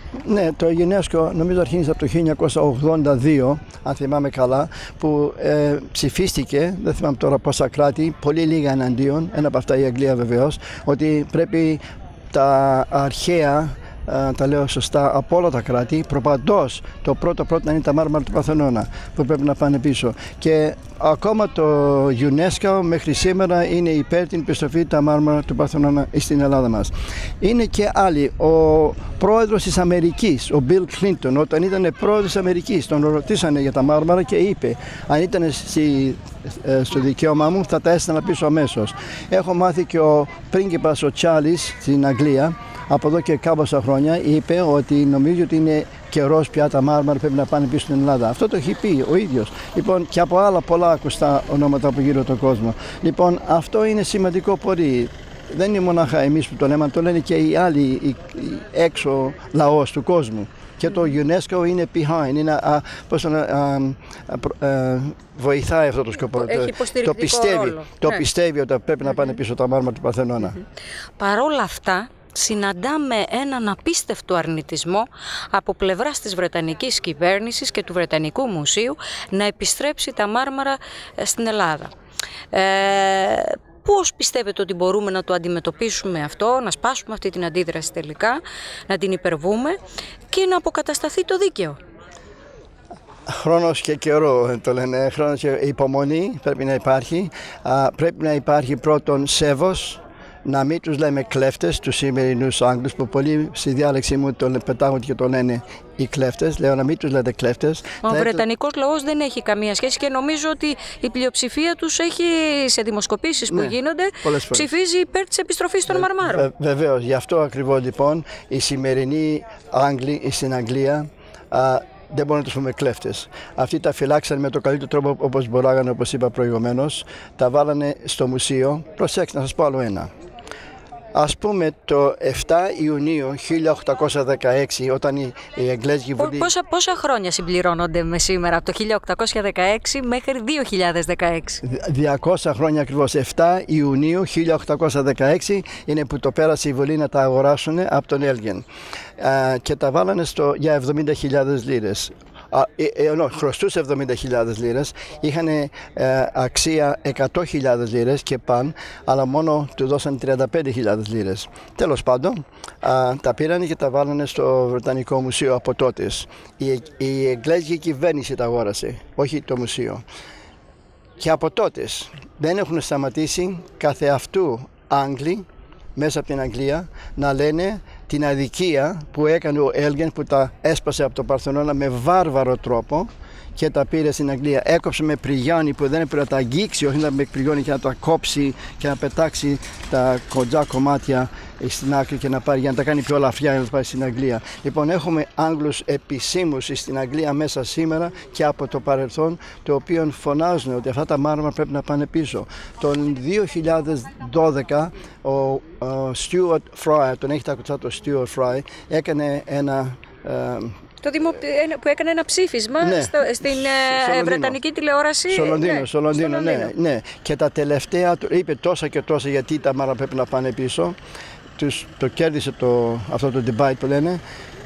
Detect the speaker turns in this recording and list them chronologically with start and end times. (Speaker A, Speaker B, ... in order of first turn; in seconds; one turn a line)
Speaker A: 0.2-70.6
Speaker B: 66.3-68.2
Speaker B: 71.2-81.9
Speaker B: 82.5-89.8
Speaker B: 90.3-91.8
Speaker A: 93.3-108.4
Speaker B: 108.0-116.5
Speaker A: 113.5-114.7
Speaker A: 115.9-130.1
Speaker A: 131.2-136.5
Speaker B: 136.2-141.6
Speaker A: 141.6-148.7
Speaker A: 149.2-170.1
Speaker A: 171.2-210.8
Speaker B: 211.0-216.7
Speaker A: 212.8-214.6
Speaker A: 215.3-221.0
Speaker A: 221.6-224.2